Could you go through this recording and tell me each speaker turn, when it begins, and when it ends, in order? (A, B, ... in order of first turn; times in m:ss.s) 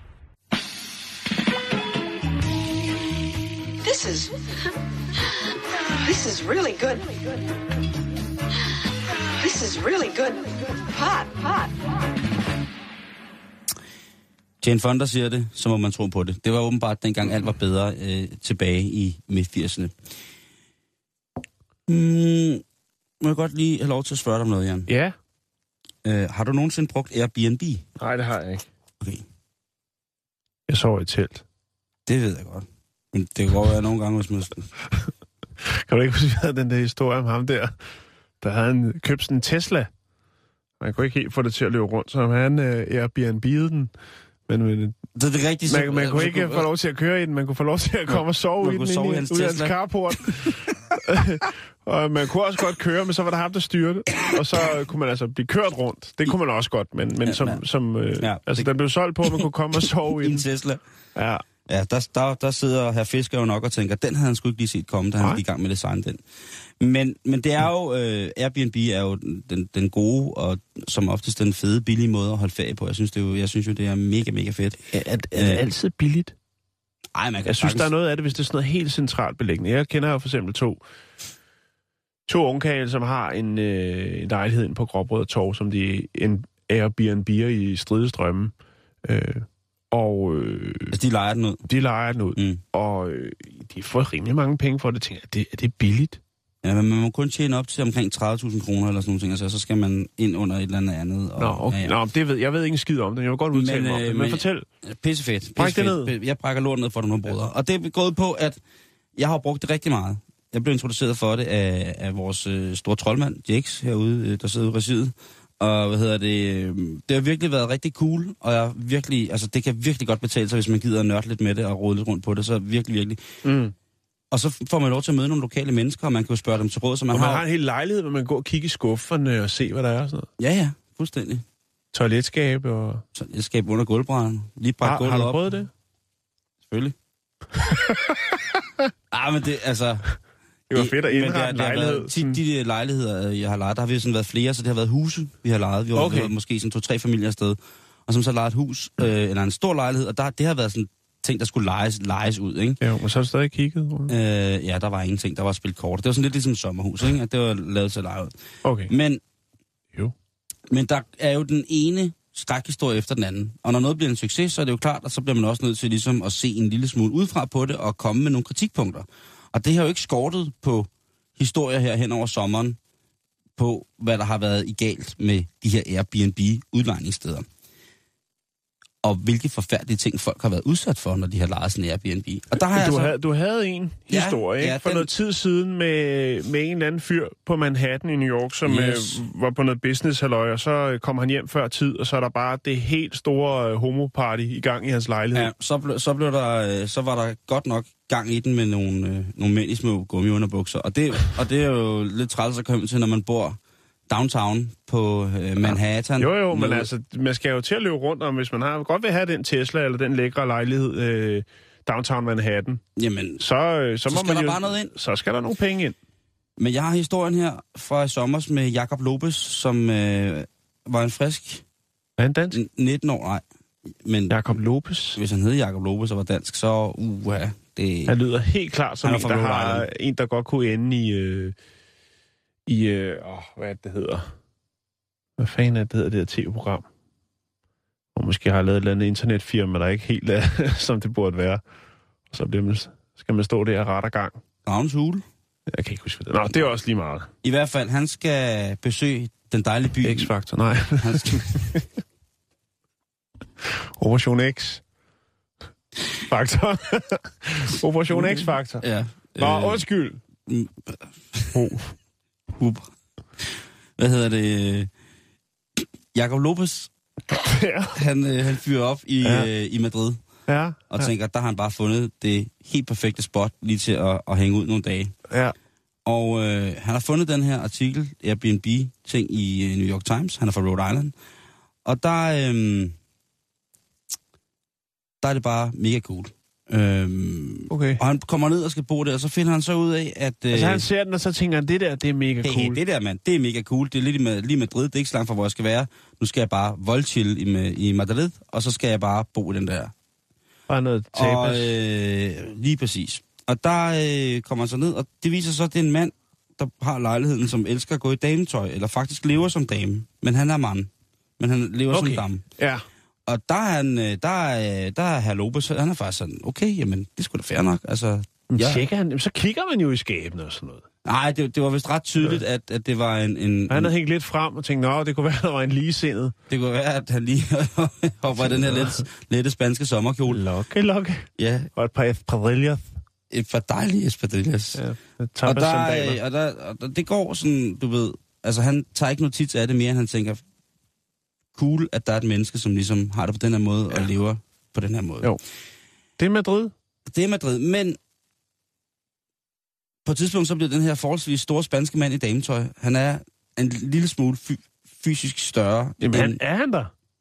0:03.8-0:04.3 A
0:06.0-0:07.4 A
0:09.4-0:11.8 A
0:14.6-0:20.0 B
0:21.9-0:22.6 B
0:23.2-0:24.9 B
0:24.9-0:25.2 C
0:26.0-0:27.8 B
0:28.0-0:28.7 C
0:30.7-0:31.4 C
0:32.1-0:34.7 B
0:35.6-0:37.8 C
0:38.4-0:39.9 C
0:40.8-0:43.9 C
0:44.5-0:45.0 C
0:45.2-0:46.7 B
0:45.7-1:00.5 C
0:48.1-0:49.8 B
0:57.2-0:57.6 B
0:58.2-0:58.7 B
1:00.2-1:00.8 B
1:01.2-1:01.4 C
1:01.7-1:06.2 B
1:06.8-1:14.8 B
1:14.9-1:16.4 C
1:15.4-1:15.6 B
1:17.2-1:17.9 B
1:17.5-1:20.8 C
1:22.3-1:28.5 C
1:29.0-1:31.0 C
1:30.9-1:31.6 B
1:31.7-1:36.2 C
1:32.4-1:32.6 B
1:36.6-1:42.0 B
1:41.4-1:44.6 C
1:43.5-1:48.6 B
1:45.6-1:46.1 C
1:49.2-2:03.2 B
2:03.4-2:03.7 C
2:04.3-2:07.4 B
2:07.1-2:10.3 C
2:10.4-2:11.4 B
2:11.9-2:13.0 C
2:13.2-2:15.4 B
2:14.8-2:15.7 C
2:16.6-2:17.0 B
2:17.6-2:18.6 C
2:19.1-2:20.1 B
2:20.7-2:22.4 C
2:20.7-2:32.8 B
2:26.0-2:26.3 C
2:32.8-2:34.1 C
2:34.1-2:38.3 B
2:38.6-2:38.9 C
2:38.9-2:39.2 B
2:40.7-2:52.8 B
2:53.6-2:57.5 B
2:59.0-3:03.1 B
3:02.7-3:15.5 C
3:04.1-3:05.1 B
3:08.7-3:09.2 B
3:15.3-3:26.9 B
3:25.6-3:32.8 C
3:33.0-3:33.4 B
3:33.4-3:36.0 C
3:34.1-3:34.9 B
3:36.6-3:41.6 B
3:42.2-3:42.6 C
3:42.5-3:43.4 B
3:44.0-3:44.5 B
3:44.3-3:45.2 C
3:45.2-3:48.2 B
3:48.1-3:51.6 C
3:49.0-3:49.9 B
3:52.7-3:54.3 C
3:55.4-3:56.8 C
3:58.2-4:01.6 C
4:02.3-4:04.4 C
4:04.6-4:05.2 B
4:05.7-4:07.3 C
4:07.4-4:10.3 B
4:10.0-4:11.8 C
4:11.0-4:11.7 B
4:14.0-4:14.8 C
4:16.3-4:18.8 C
4:18.1-4:19.8 B
4:19.4-4:20.2 C
4:20.5-4:21.6 B
4:21.5-4:21.9 C
4:22.6-4:22.9 B
4:23.4-4:24.9 B
4:26.1-4:26.9 B
4:27.3-4:28.0 C
4:27.9-4:30.2 B
4:29.2-4:29.5 C
4:30.5-4:31.1 C
4:30.9-4:35.1 B
4:35.3-4:35.5 C
4:36.1-4:41.1 B
4:41.8-4:43.0 B
4:45.2-4:50.8 B
4:47.7-4:48.0 C
4:50.5-4:52.8 C
4:52.4-4:59.9 B
5:00.7-5:01.7 C
5:01.1-5:12.4 B
5:11.9-5:12.8 C
5:13.3-5:18.8 B
5:18.5-5:20.8 C
5:21.0-5:23.9 B
5:23.7-5:26.4 C
5:26.5-5:30.4 B
5:28.4-5:29.0 C
5:30.3-5:32.9 C
5:31.4-5:31.7 B
5:33.3-5:34.8 B
5:34.8-5:36.2 C
5:35.4-5:40.4 B
5:41.6-5:45.4 B
5:46.2-5:46.7 C
5:47.1-5:48.0 B
5:50.0-5:56.4 B
5:56.0-5:56.9 C